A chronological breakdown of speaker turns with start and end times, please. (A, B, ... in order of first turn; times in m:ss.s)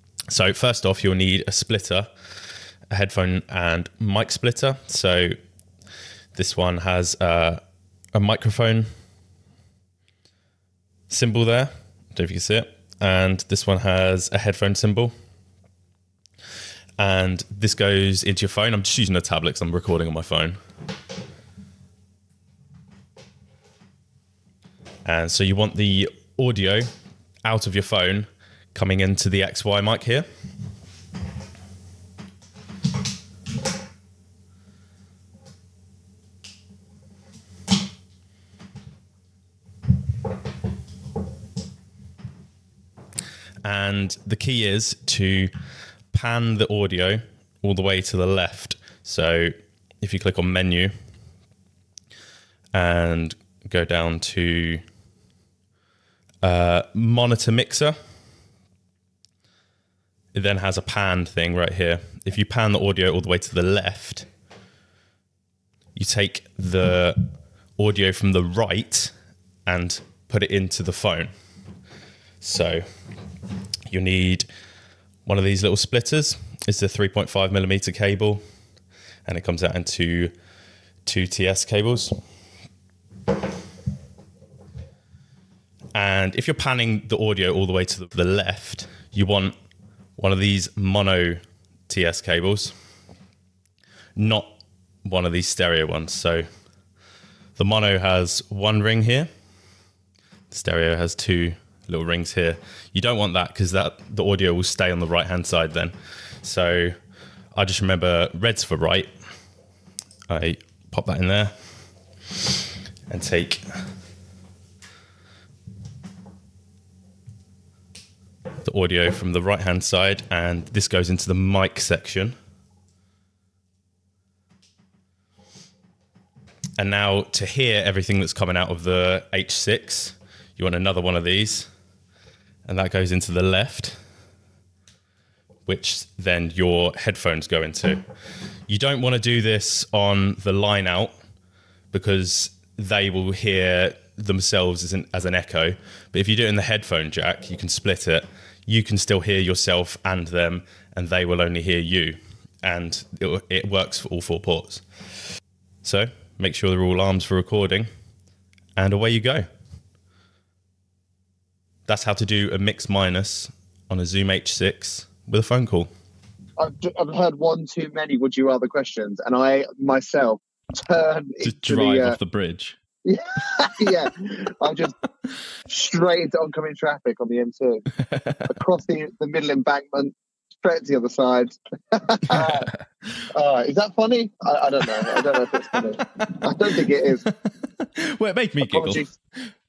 0:00.3-0:02.1 A
0:02.9-0:05.3 A
0:06.3-0:07.6 A
0:08.1-0:08.9 A
0:11.1-0:15.1 A
0:17.0-0:20.6 A
0:25.0-0:26.9 A
0:27.4-0:30.3 A
0:43.6-0:45.5 A
0:46.1-0:50.9 A
0:52.7-0:54.8 A
0:56.4-0:57.9 A
1:00.3-1:04.3 A
1:05.9-1:07.2 A
1:07.8-1:09.1 A
1:09.6-1:11.3 A
1:12.4-1:12.8 A
1:13.9-1:14.5 A
1:15.2-1:18.4 A
1:19.2-1:20.3 A
1:21.0-1:22.2 A
1:25.9-1:29.5 A
1:30.2-1:32.7 A
1:34.2-1:36.4 A
1:37.6-1:39.3 A
1:40.5-1:47.0 A
1:47.5-1:49.1 A
1:50.3-1:51.5 A
1:53.1-1:53.6 A
1:58.6-2:02.3 A
2:06.8-2:11.7 A
2:12.7-2:14.0 A
2:15.7-2:18.0 A
2:18.7-2:21.1 A
2:21.9-2:34.8 A
2:35.8-2:37.9 A
2:38.8-2:39.4 A
2:41.9-2:45.9 A
2:46.6-2:52.2 B
2:51.4-2:52.8 A
2:53.0-2:54.9 B
2:55.7-2:57.8 B
2:58.0-2:58.5 A
2:58.5-3:02.7 B
3:02.2-3:02.8 A
3:03.3-3:07.2 B
3:05.6-3:09.0 A
3:08.6-3:09.1 B